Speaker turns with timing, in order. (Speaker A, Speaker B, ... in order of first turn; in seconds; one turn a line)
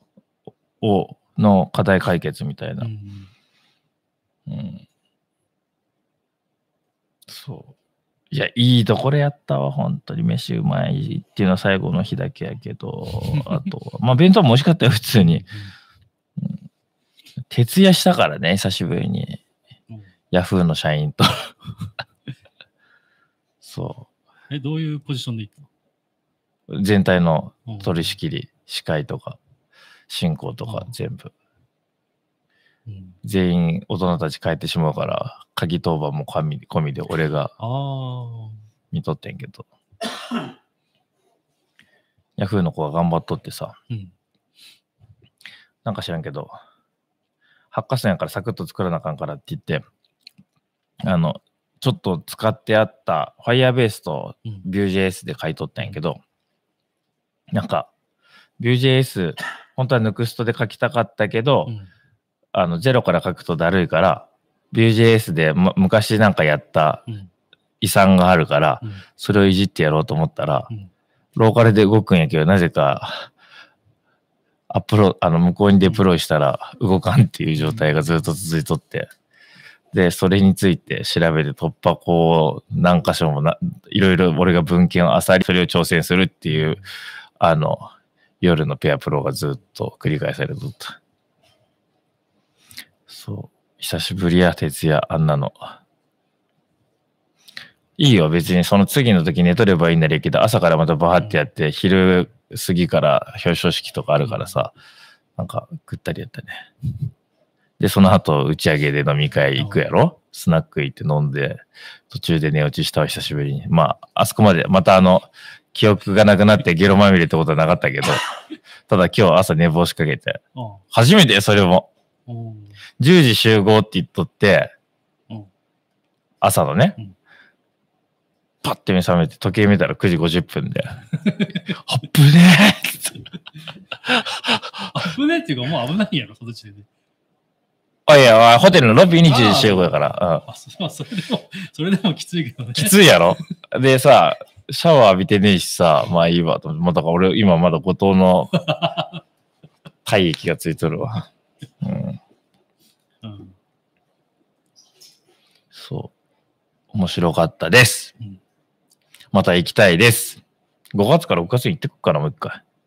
Speaker A: 0.8-2.9
Speaker B: 2.8-3.3
Speaker A: 4.5-4.8
Speaker A: 7.3-7.7
Speaker A: 8.3-15.4
Speaker B: 13.3-13.7
Speaker B: 15.1-15.7
Speaker A: 17.5-19.4
Speaker A: 20.3-21.5
Speaker A: 23.6-24.1
Speaker B: 24.5-25.7
Speaker A: 26.7-29.4
Speaker B: 27.7-28.1
Speaker A: 30.1-31.3
Speaker B: 30.6-30.9
Speaker B: 32.9-33.2
Speaker A: 33.2-37.5
Speaker B: 37.6-38.6
Speaker A: 38.9-39.6
Speaker A: 42.4-43.8
Speaker B: 43.9-44.1
Speaker A: 45.8-46.5
Speaker A: 47.7-49.8
Speaker A: 51.0-56.2
Speaker A: 57.5-57.9
Speaker A: 58.6-61.7
Speaker A: 62.5-67.0
Speaker A: 67.8-70.7
Speaker A: 71.3-73.3
Speaker A: 74.7-79.1
Speaker B: 77.5-78.0
Speaker A: 79.9-86.8
Speaker B: 86.5-86.9
Speaker A: 87.4-91.0
Speaker A: 93.1-95.8
Speaker A: 98.0-104.7
Speaker B: 104.2-104.5
Speaker A: 105.4-106.7
Speaker A: 107.8-118.2
Speaker B: 109.6-109.8
Speaker A: 118.9-121.9
Speaker B: 120.5-120.8
Speaker B: 122.3-122.8
Speaker A: 123.0-124.7
Speaker A: 126.4-127.0
Speaker A: 128.6-131.1
Speaker B: 131.2-131.7
Speaker A: 131.6-133.2
Speaker A: 134.0-134.9
Speaker B: 134.9-136.9
Speaker A: 138.1-140.4
Speaker B: 139.2-143.3
Speaker A: 142.8-148.5
Speaker B: 148.6-149.2
Speaker A: 150.0-151.3
Speaker A: 151.8-152.2
Speaker B: 153.2-153.6
Speaker A: 155.7-156.1
Speaker A: 156.9-158.1
Speaker A: 159.3-160.4
Speaker A: 160.9-162.6